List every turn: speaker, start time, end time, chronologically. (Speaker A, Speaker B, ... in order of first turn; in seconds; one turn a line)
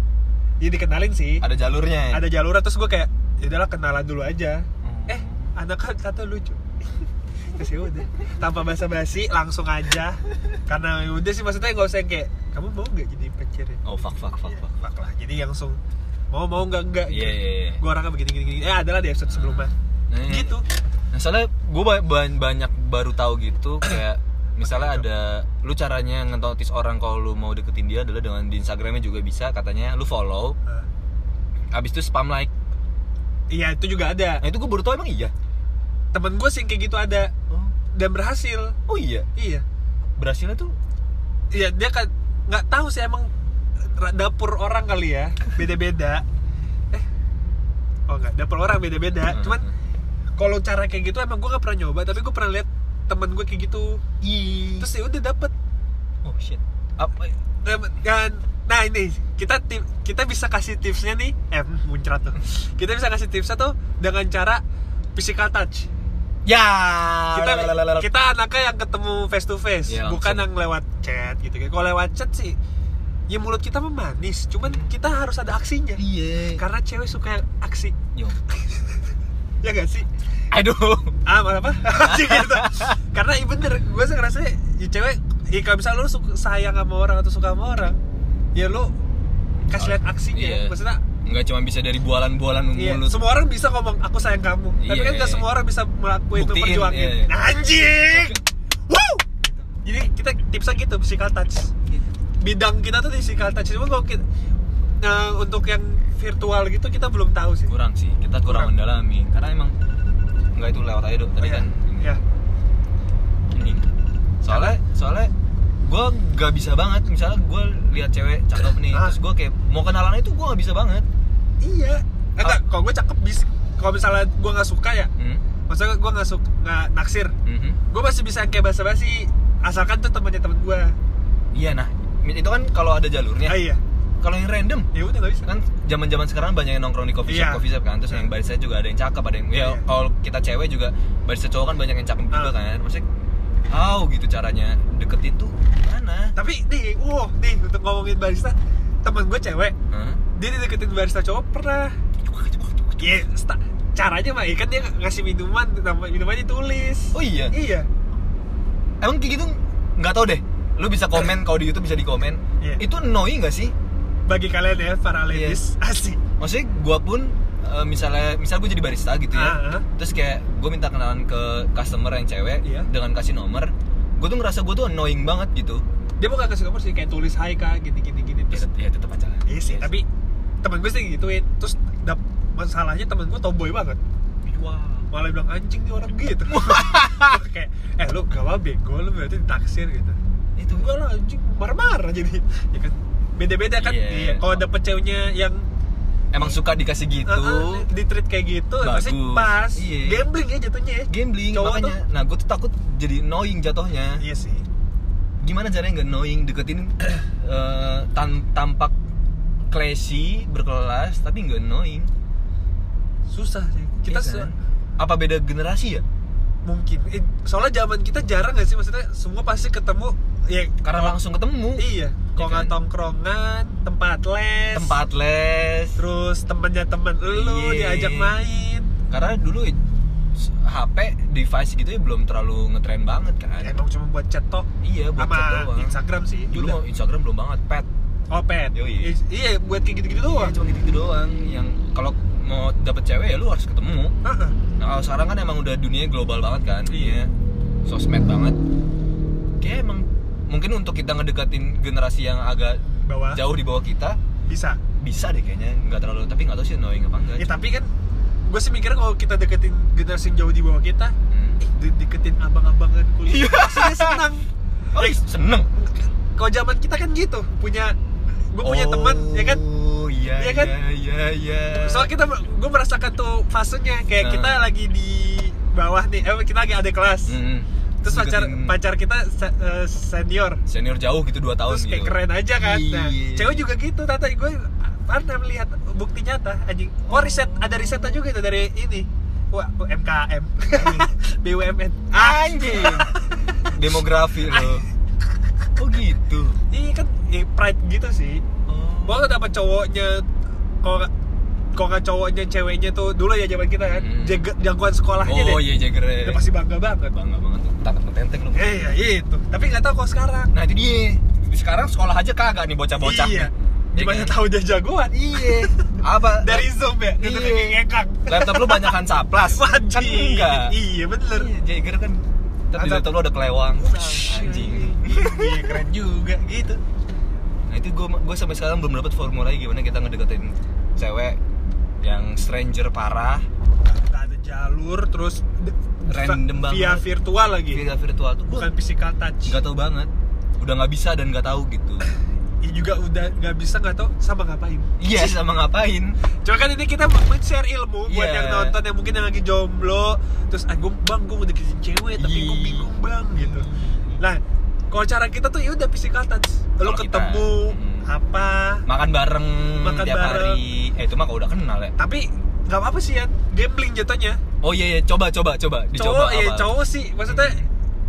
Speaker A: 0.6-1.4
Speaker B: 1.4-2.2
Speaker A: 2.1-6.6
Speaker B: 4.8-5.5
Speaker A: 7.5-15.8
Speaker B: 13.8-14.8
Speaker A: 16.3-19.7
Speaker B: 17.1-17.8
Speaker B: 19.3-20.6
Speaker A: 20.3-20.6
Speaker B: 21.1-30.6
Speaker A: 24.6-25.1
Speaker B: 31.7-32.5
Speaker A: 33.5-34.4
Speaker B: 34.4-35.3
Speaker A: 36.1-37.3
Speaker A: 37.9-38.8
Speaker B: 38.9-39.3
Speaker A: 39.4-39.6
Speaker B: 40.2-40.8
Speaker A: 41.5-43.3
Speaker A: 43.8-46.2
Speaker A: 48.1-49.6
Speaker B: 49.2-49.7
Speaker A: 50.4-54.0
Speaker B: 54.2-54.9
Speaker A: 54.8-55.5
Speaker B: 56.2-57.3
Speaker A: 57.6-64.6
Speaker A: 65.2-65.9
Speaker B: 66.5-68.1
Speaker A: 67.3-72.6
Speaker B: 69.9-70.5
Speaker A: 73.3-76.0
Speaker B: 74.6-74.9
Speaker B: 76.0-76.6
Speaker A: 76.5-78.0
Speaker A: 78.5-79.1
Speaker A: 79.6-80.1
Speaker B: 80.5-81.2
Speaker A: 81.2-88.0
Speaker B: 82.0-83.0
Speaker A: 88.5-89.0
Speaker A: 89.7-91.0
Speaker B: 89.8-90.7
Speaker B: 91.2-93.2
Speaker A: 92.8-101.7
Speaker B: 94.8-95.5
Speaker B: 96.3-97.3
Speaker B: 98.1-98.4
Speaker A: 102.4-104.2
Speaker A: 105.0-107.7
Speaker B: 107.7-109.8
Speaker A: 108.5-108.7
Speaker B: 110.5-112.1
Speaker A: 111.4-112.2
Speaker B: 113.5-113.9
Speaker B: 114.4-121.1
Speaker A: 114.5-114.8
Speaker A: 118.9-119.2
Speaker A: 121.6-125.1
Speaker A: 125.7-127.3
Speaker B: 127.5-127.8
Speaker A: 127.9-131.0
Speaker B: 131.5-133.6
Speaker A: 133.5-133.8
Speaker B: 134.2-134.9
Speaker A: 134.9-135.5
Speaker B: 135.5-143.1
Speaker A: 137.3-138.3
Speaker A: 139.6-139.8
Speaker B: 143.7-146.3
Speaker A: 146.4-149.8
Speaker B: 149.9-150.2
Speaker A: 150.3-152.0
Speaker B: 152.2-153.2
Speaker A: 153.0-157.9
Speaker B: 157.1-157.6
Speaker B: 159.0-163.8
Speaker A: 164.3-166.2
Speaker B: 165.3-165.6
Speaker B: 166.4-175.8
Speaker A: 169.3-169.8
Speaker A: 176.2-178.7
Speaker B: 178.5-179.9
Speaker A: 179.5-180.1
Speaker A: 180.6-184.0
Speaker B: 184.4-185.1
Speaker A: 185.1-190.2
Speaker B: 186.5-187.4
Speaker B: 190.6-190.9
Speaker A: 190.7-195.7
Speaker B: 193.8-194.7
Speaker B: 196.3-197.9
Speaker A: 197.2-202.0
Speaker B: 198.8-200.3
Speaker B: 201.1-204.2
Speaker A: 204.2-204.7
Speaker B: 205.4-208.9
Speaker B: 209.7-212.1
Speaker A: 213.3-214.5
Speaker B: 214.1-216.1
Speaker A: 216.7-221.2
Speaker B: 220.8-222.7
Speaker A: 221.8-225.0
Speaker B: 224.7-226.0
Speaker A: 226.0-228.9
Speaker B: 227.3-228.3
Speaker B: 229.1-229.8
Speaker B: 230.4-233.8
Speaker A: 233.6-236.8
Speaker B: 234.8-236.0
Speaker B: 236.5-237.9
Speaker A: 238.3-240.5
Speaker B: 238.7-239.1
Speaker B: 240.2-244.1
Speaker A: 244.2-244.6
Speaker B: 244.8-247.3
Speaker A: 246.9-247.2
Speaker B: 247.9-248.6
Speaker B: 249.6-252.8
Speaker A: 253.1-253.4
Speaker B: 253.3-254.2
Speaker A: 254.5-254.8
Speaker B: 255.0-257.5
Speaker A: 257.4-257.9
Speaker A: 258.5-265.2
Speaker B: 261.3-261.6
Speaker B: 263.3-264.3
Speaker B: 264.9-265.7
Speaker A: 265.7-268.0
Speaker A: 268.5-269.6
Speaker B: 268.6-272.1
Speaker A: 270.4-270.8
Speaker A: 271.7-277.4
Speaker B: 274.2-274.7
Speaker B: 277.3-278.8
Speaker A: 278.0-280.6
Speaker B: 280.7-283.6
Speaker A: 281.7-293.7
Speaker B: 287.1-288.2
Speaker B: 290.8-291.1
Speaker B: 292.1-294.9
Speaker B: 295.8-296.6
Speaker A: 296.7-298.4
Speaker B: 298.7-299.3
Speaker A: 299.1-300.3
Speaker A: 300.8-301.1
Speaker A: 301.7-305.6
Speaker B: 303.9-304.4
Speaker B: 305.2-306.4
Speaker A: 306.2-307.1
Speaker B: 307.1-308.9
Speaker A: 308.5-310.5
Speaker B: 310.5-314.4
Speaker A: 313.0-321.5
Speaker B: 315.1-320.7
Speaker B: 321.3-325.8
Speaker A: 322.8-323.1
Speaker A: 323.8-326.8
Speaker B: 327.7-331.4
Speaker B: 332.0-333.5
Speaker A: 333.8-337.9
Speaker B: 336.1-337.0
Speaker B: 337.7-338.8
Speaker A: 338.5-339.6
Speaker B: 339.5-342.1
Speaker A: 342.1-344.9
Speaker B: 345.0-346.2
Speaker A: 346.4-353.7
Speaker B: 348.1-348.8
Speaker B: 352.2-354.2
Speaker A: 354.2-358.8
Speaker B: 356.8-358.1
Speaker B: 358.9-361.9
Speaker A: 359.8-360.6
Speaker A: 362.0-364.4
Speaker B: 364.6-366.7
Speaker A: 366.0-367.6
Speaker B: 367.3-367.7